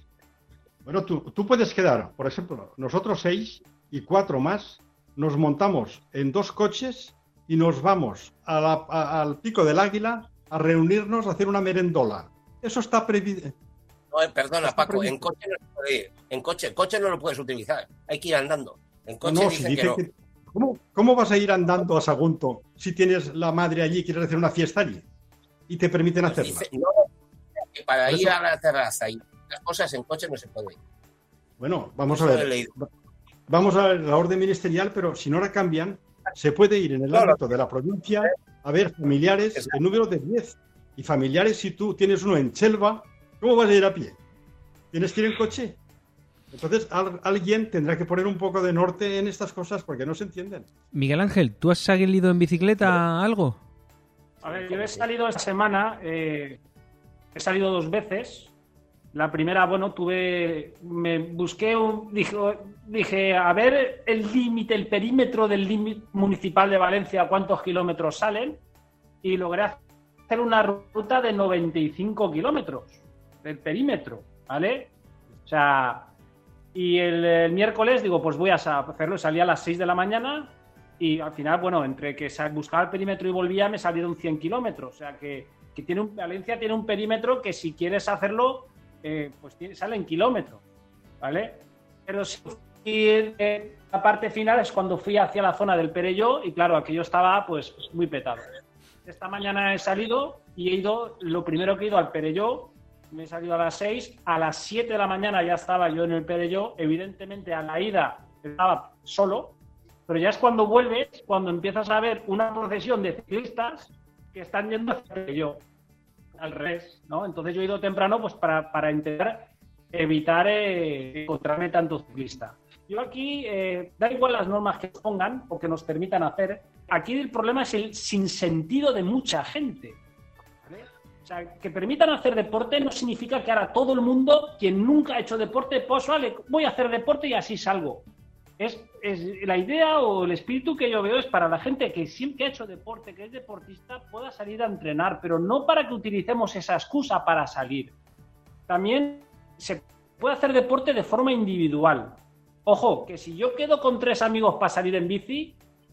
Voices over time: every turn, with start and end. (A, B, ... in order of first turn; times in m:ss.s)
0:00.8-0:13.5 A
0:14.1-0:20.0 B
0:14.6-0:15.3 A
0:19.2-0:25.0 A
0:25.7-0:26.7 A
0:26.3-0:27.0 B
0:27.7-0:30.8 B
0:28.1-0:28.4 A
0:31.6-0:32.9 A
0:32.1-0:32.7 B
0:33.5-0:44.2 A
0:44.9-0:45.8 A
0:46.5-0:50.7 A
0:50.9-0:53.6 C
0:54.4-0:55.0 B
0:54.4-0:56.6 D
0:57.3-0:58.5 D
0:59.1-1:08.6 D
1:09.2-1:14.9 D
1:15.4-1:16.1 D
1:16.7-1:30.6 D
1:31.2-1:38.5 D
1:39.0-1:49.6 D
1:50.1-1:55.6 D
1:56.4-2:10.0 D
2:10.6-2:18.0 D
2:18.6-2:27.9 D
2:28.7-2:35.6 D